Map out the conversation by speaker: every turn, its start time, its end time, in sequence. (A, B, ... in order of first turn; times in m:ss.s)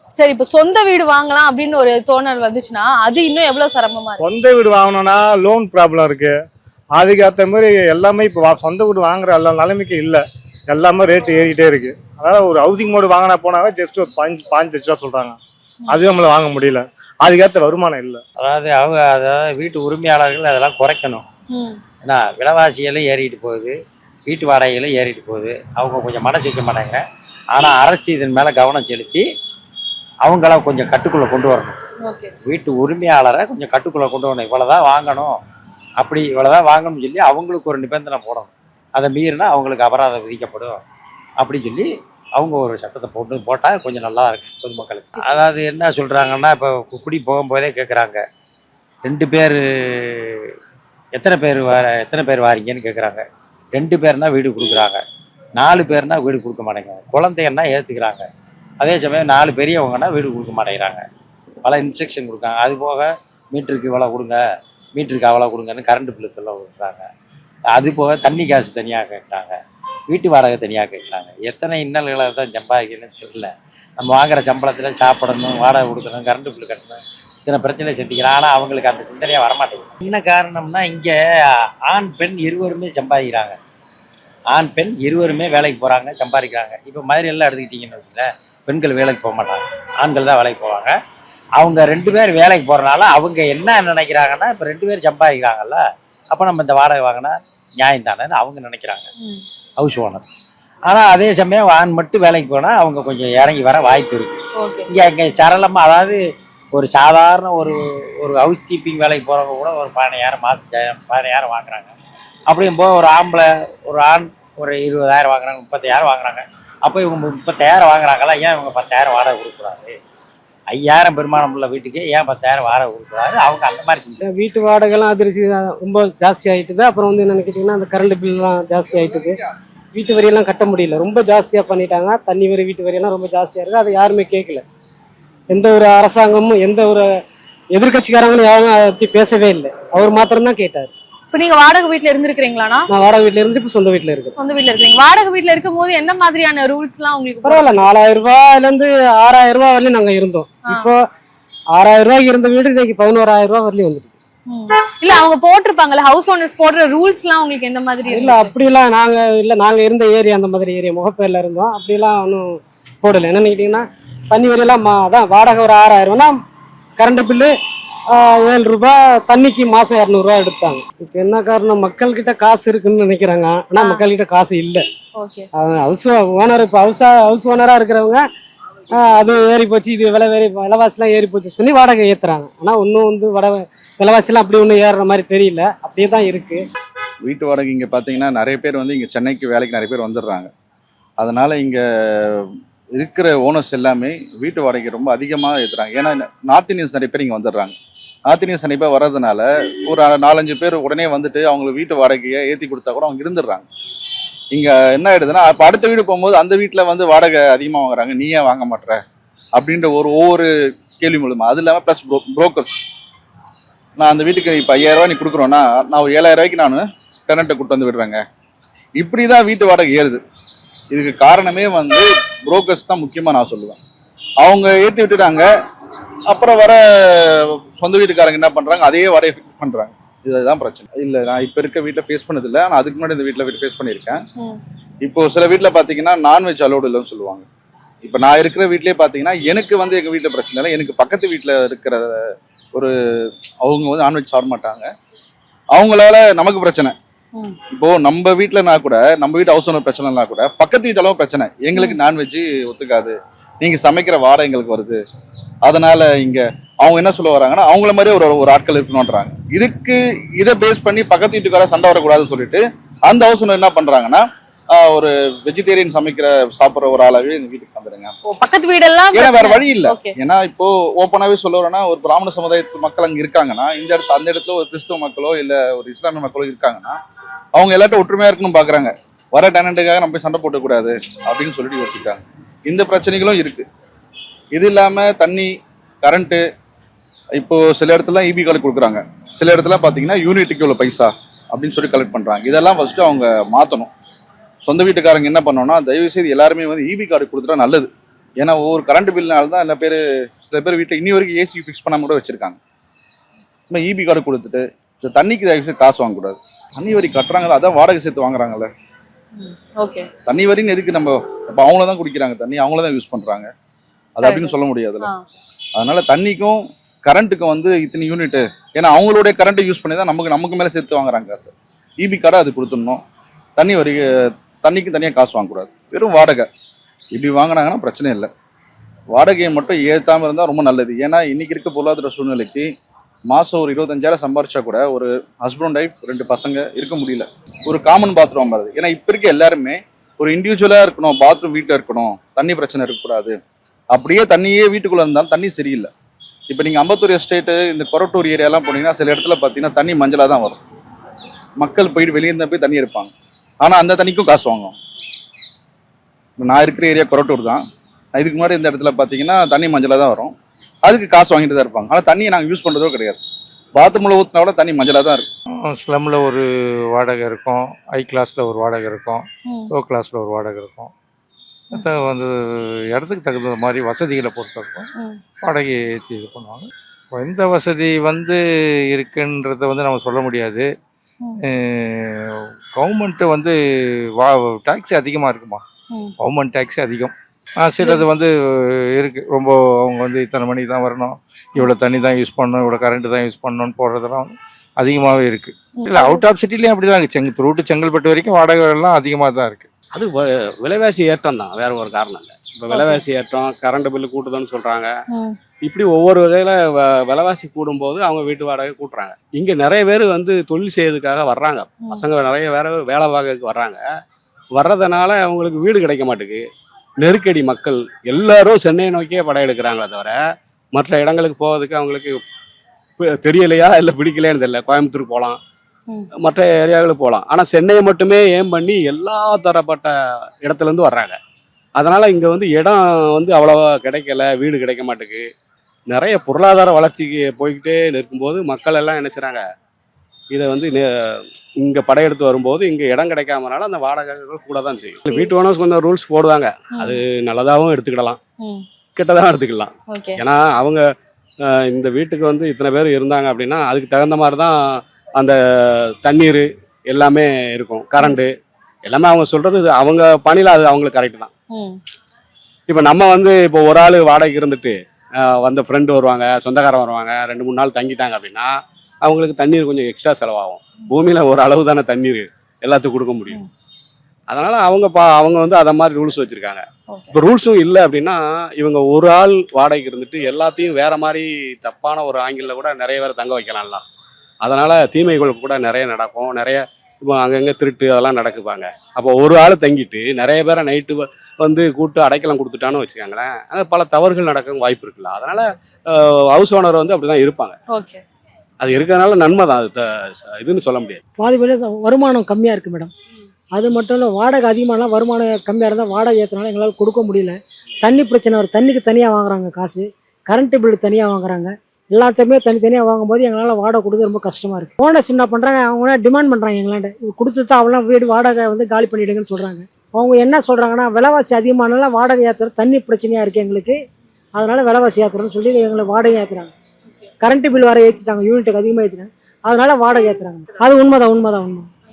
0:00.2-0:04.2 A
0:04.2-0:06.3 B
0:07.0-0:18.2 B
0:18.4-0:21.2 C
0:21.5-0:21.8 A
0:22.0-0:23.8 C
0:24.3-0:27.0 C
0:27.5-0:29.2 C
0:30.2-0:31.8 C
0:32.0-0:32.3 A
0:32.4-0:35.4 C
0:36.0-0:40.8 C
0:41.4-0:48.2 C
0:49.1-0:50.5 C
0:51.2-0:53.2 C
0:53.8-0:55.0 C
0:55.6-0:58.2 C
0:58.8-1:01.0 C
1:01.6-1:04.4 C
1:05.0-1:07.1 C
1:07.7-1:09.6 C
1:10.1-1:23.6 C
1:24.5-1:30.9 C
1:31.6-1:39.0 C
1:39.8-1:40.2 C
1:40.9-1:44.4 C
1:44.6-1:44.9 A
1:44.9-1:46.2 C
1:46.7-1:51.9 C
1:52.5-2:00.0 C
2:00.7-2:04.2 C
2:04.2-2:09.4 D
2:08.8-2:09.5 E
2:09.9-2:14.6 D
2:15.5-2:17.1 D
2:17.7-2:20.9 D
2:21.3-2:22.9 A
2:22.9-2:24.3 D
2:24.4-2:27.8 A
2:27.4-2:31.0 D
2:30.6-2:30.9 A
2:31.7-2:34.1 D
2:34.5-2:38.6 A
2:38.0-2:46.4 D
2:47.0-2:47.5 D
2:48.1-2:54.8 D
2:53.7-2:54.1 A
2:55.2-2:55.5 A
2:55.5-2:58.2 D
2:58.9-3:06.6 D
3:07.2-3:10.5 E
3:11.2-3:17.7 E
3:18.3-3:23.7 E
3:24.5-3:29.0 E
3:29.5-3:30.5 E
3:31.0-3:32.8 E
3:34.0-3:38.2 E
3:39.0-3:40.2 E
3:40.9-3:43.8 E
3:44.4-3:45.5 E
3:46.3-3:54.2 E
3:55.0-3:57.4 E
3:58.0-4:02.2 E
4:03.6-4:04.9 E
4:05.7-4:07.0 E
4:07.7-4:15.0 E
4:11.7-4:12.0 A
4:15.6-4:28.1 E
4:28.2-4:30.1 A
4:29.1-4:37.0 E
4:37.5-4:43.6 E
4:44.5-4:45.5 E
4:46.0-4:46.4 E
4:47.4-4:53.9 E
4:54.6-4:57.9 E
4:58.4-5:02.6 E
5:03.7-5:08.7 E
5:09.4-5:10.1 A
5:10.3-5:13.5 E
5:14.2-5:15.1 E
5:14.2-5:15.2 A
5:15.8-5:23.0 E
5:23.6-5:24.1 E
5:24.6-5:26.5 E
5:27.1-5:28.3 E
5:29.1-5:32.7 E
5:33.3-5:43.4 E
5:43.9-5:45.9 E
5:46.5-5:50.6 E
5:51.6-5:54.8 E
5:56.4-5:57.6 E
5:58.1-6:00.3 E
6:00.8-6:03.2 E
6:03.8-6:05.3 E
6:05.7-6:06.4 F
6:07.0-6:10.9 F
6:09.5-6:09.7 A
6:11.7-6:12.3 F
6:13.0-6:14.9 F
6:15.4-6:18.4 F
6:18.9-6:20.7 F
6:22.8-6:23.5 F
6:24.2-6:25.6 F
6:26.2-6:28.3 F
6:29.0-6:39.7 F
6:35.8-6:36.2 A
6:39.9-6:44.9 G
6:42.7-6:43.0 A
6:45.6-6:53.8 G
6:54.6-6:56.4 G
6:57.0-7:00.2 G
7:00.7-7:02.2 G
7:03.0-7:05.4 G
7:06.2-7:09.9 G
7:10.4-7:11.2 G
7:11.8-7:15.2 G
7:15.9-7:19.4 G
7:20.3-7:28.2 G
7:29.0-7:30.8 G
7:29.9-7:30.2 A
7:31.4-7:34.5 G
7:36.0-7:38.3 G
7:38.9-7:41.3 G
7:41.5-7:41.8 A
7:42.7-7:48.5 G
7:49.0-7:53.4 G
7:54.3-8:03.8 G
8:04.4-8:17.6 G
8:17.7-8:18.0 A
8:18.6-8:21.0 G
8:21.2-8:22.8 H
8:21.2-8:21.6 B
8:23.5-8:29.7 H
8:29.5-8:29.8 B
8:30.3-8:31.4 H
8:31.9-8:43.7 H
8:34.4-8:34.8 B
8:39.3-8:39.6 B
8:44.3-8:46.5 H
8:47.2-8:51.6 H